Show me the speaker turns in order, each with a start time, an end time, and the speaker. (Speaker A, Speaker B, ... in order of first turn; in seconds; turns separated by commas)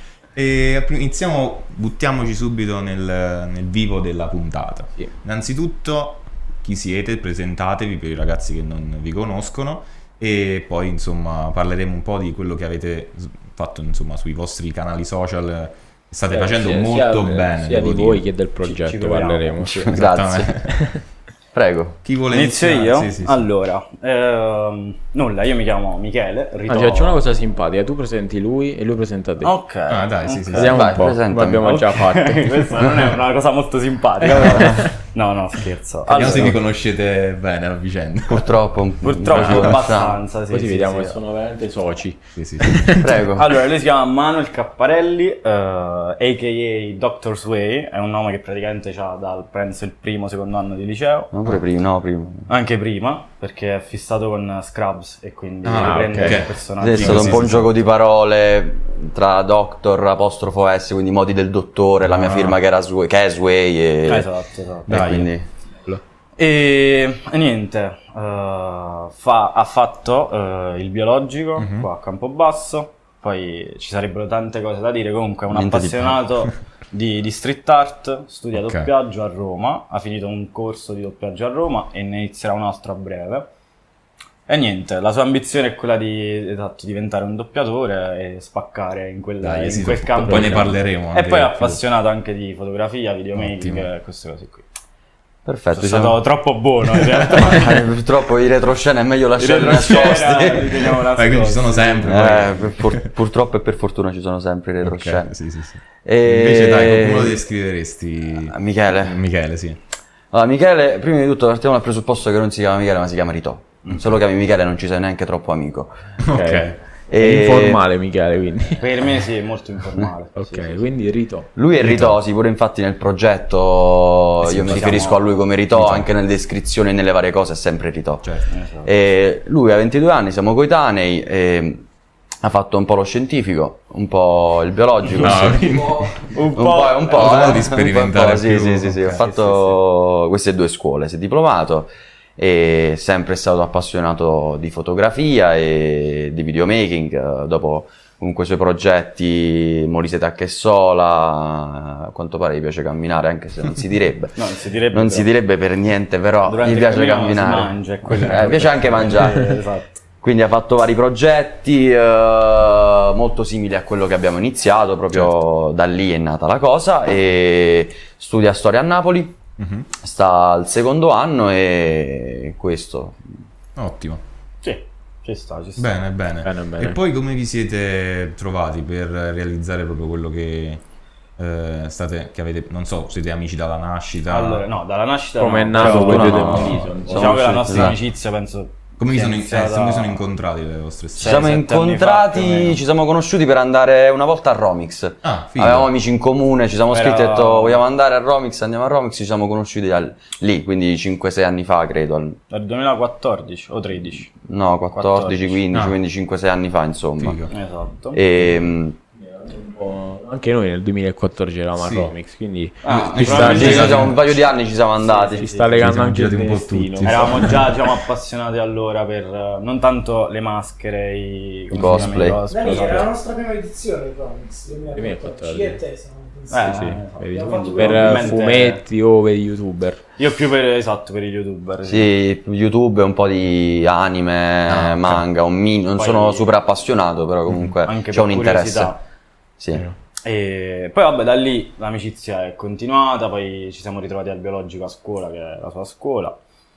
Speaker A: 0.3-18.3, Speaker B: 16.3-19.8, Speaker C: 18.6-19.7, Speaker D: 19.6-20.6, Speaker A: 19.9-20.8, Speaker B: 20.7-21.0, Speaker D: 21.5-22.0, Speaker A: 22.0-23.5, Speaker C: 22.3-27.2, Speaker B: 26.7-29.6, Speaker C: 29.4-30.8, Speaker A: 29.9-31.0, Speaker B: 30.5-32.5, Speaker D: 30.6-31.8, Speaker C: 31.6-36.6, Speaker A: 36.1-38.6, Speaker D: 38.3-40.2, Speaker C: 39.0-41.2, Speaker A: 39.2-39.8, Speaker B: 40.5-43.0, Speaker A: 42.4-43.2, Speaker D: 43.0-43.6, Speaker C: 43.4-51.3, Speaker D: 51.3-52.5, Speaker C: 52.5-57.6, Speaker A: 55.6-57.7, Speaker B: 55.8-56.5, Speaker D: 56.8-64.3, Speaker A: 62.0-62.6, Speaker C: 64.0-65.2, Speaker D: 64.9-65.5, Speaker A: 64.9-65.3, Speaker C: 66.4-83.5, Speaker A: 71.6-71.9, Speaker D: 75.5-76.2, Speaker A: 78.5-78.9, Speaker C: 84.5-94.7, Speaker A: 89.4-91.8, Speaker B: 90.2-90.6, Speaker A: 93.4-93.9, Speaker D: 95.5-96.2, Speaker C: 95.7-97.7, Speaker A: 96.9-97.7, Speaker D: 97.4-101.0, Speaker C: 99.4-102.5, Speaker A: 99.7-100.2, Speaker A: 100.9-103.1, Speaker D: 102.0-105.3, Speaker A: 104.8-109.8, Speaker D: 106.0-107.4, Speaker D: 108.4-109.2, Speaker D: 110.3-115.9, Speaker A: 116.2-116.8, Speaker B: 116.3-118.9, Speaker D: 117.1-117.8, Speaker C: 118.8-120.8, Speaker B: 120.4-121.5, Speaker D: 121.5-131.9, Speaker A: 121.8-122.2, Speaker A: 124.4-125.2, Speaker C: 124.7-125.2, Speaker A: 125.7-126.1, Speaker A: 128.2-128.5, Speaker C: 128.5-128.9, Speaker D: 132.4-159.6, Speaker A: 135.1-136.3, Speaker C: 136.2-137.7, Speaker A: 137.1-139.2, Speaker B: 139.2-139.7, Speaker C: 154.4-155.3, Speaker C: 156.5-160.0, Speaker D: 160.2-169.4, Speaker A: 169.6-169.9, Speaker D: 170.0-173.2, Speaker A: 173.8-174.2, Speaker C: 174.6-175.9, Speaker A: 175.8-180.8, Speaker B: 176.4-177.0, Speaker A: 181.4-184.7, Speaker C: 184.3-190.2, Speaker B: 185.4-187.6, Speaker D: 185.8-188.0, Speaker A: 187.7-188.0, Speaker A: 189.0-191.5, Speaker C: 191.2-192.8, Speaker D: 191.2-202.4, Speaker A: 195.2-195.9, Speaker C: 196.9-197.8, Speaker C: 202.5-204.4, Speaker D: 204.4-207.4, Speaker C: 204.9-205.6, Speaker A: 205.7-206.0, Speaker A: 207.2-207.5, Speaker C: 207.5-208.2, Speaker D: 208.1-209.0, Speaker B: 209.2-214.0, Speaker A: 211.8-212.1, Speaker C: 212.8-214.1, Speaker A: 212.8-214.4, Speaker D: 213.3-215.5, Speaker B: 215.0-217.6, Speaker C: 215.3-215.7, Speaker A: 215.8-217.9, Speaker C: 217.0-223.1, Speaker D: 221.7-222.4, Speaker B: 221.9-223.1, Speaker E: 222.5-228.4, Speaker B: 224.9-225.8, Speaker C: 226.5-228.8, Speaker B: 226.6-230.0, Speaker C: 230.2-232.1, Speaker D: 231.9-239.0, Speaker A: 234.7-235.2, Speaker C: 236.0-236.5, Speaker A: 237.5-237.7, Speaker C: 237.9-239.0, Speaker D: 239.6-239.8, Speaker C: 240.2-246.4